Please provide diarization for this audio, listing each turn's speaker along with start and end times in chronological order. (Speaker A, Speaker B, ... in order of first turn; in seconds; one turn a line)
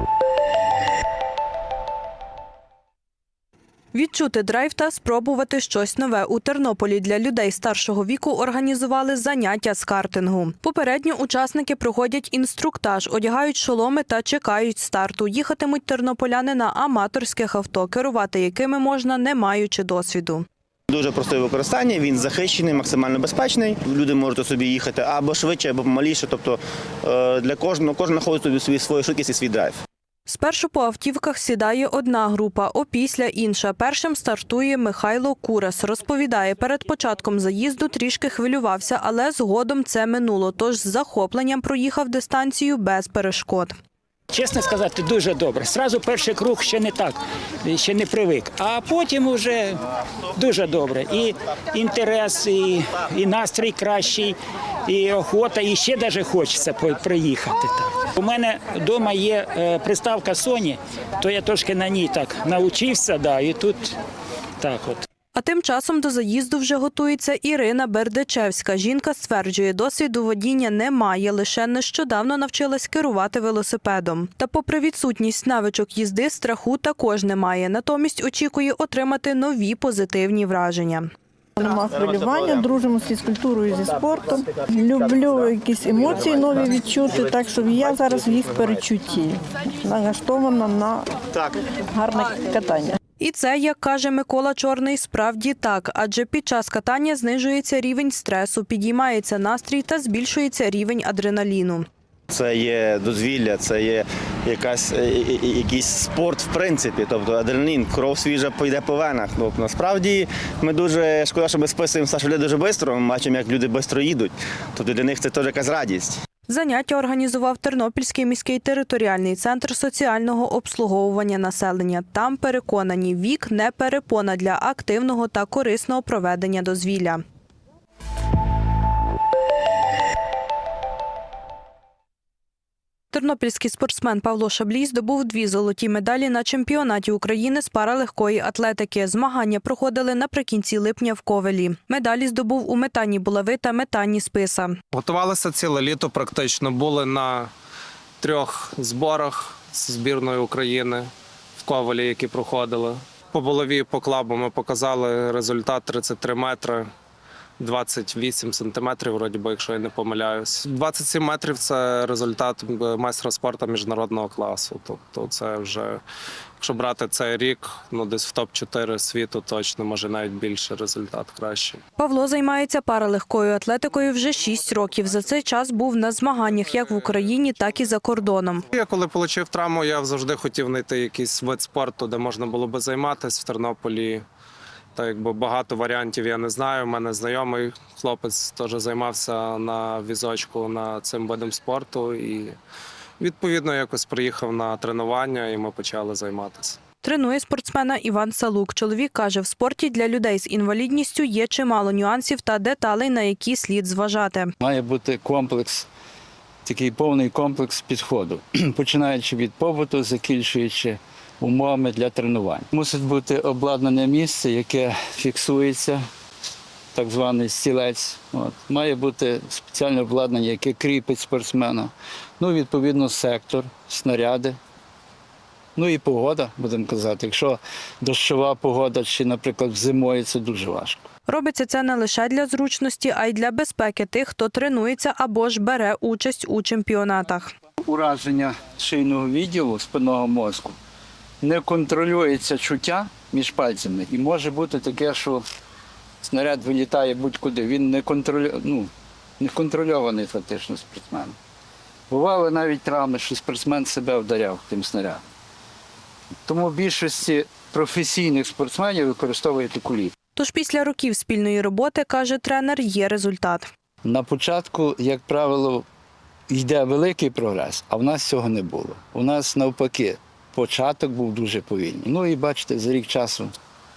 Speaker A: 3.9-20.5
Speaker B: 20.9-29.8
Speaker A: 30.3-43.8
Speaker C: 44.3-49.8
Speaker C: 50.4-64.0
Speaker C: 64.6-65.1
Speaker A: 65.3-81.1
Speaker D: 81.6-91.2
Speaker D: 91.9-93.0
Speaker A: 93.2-101.9
Speaker B: 102.3-116.2
Speaker A: 116.5-127.2
Speaker A: 133.1-144.8
Speaker E: 144.9-147.5
Speaker E: 148.2-156.9
Speaker E: 157.6-166.0
Speaker E: 166.6-171.8
Speaker A: 172.0-178.7
Speaker E: 178.7-184.2
Speaker E: 184.9-192.6
Speaker E: 193.2-196.8
Speaker A: 197.0-204.5
Speaker F: 204.6-205.9
Speaker F: 206.7-216.0
Speaker F: 216.9-224.6
Speaker F: 225.8-231.1
Speaker A: 231.3-237.5
Speaker F: 237.8-240.8
Speaker F: 241.4-245.4
Speaker F: 246.2-251.4
Speaker F: 252.1-255.2
Speaker F: 256.5-260.1
Speaker A: 260.4-263.7
Speaker F: 264.0-265.9
Speaker F: 266.5-273.5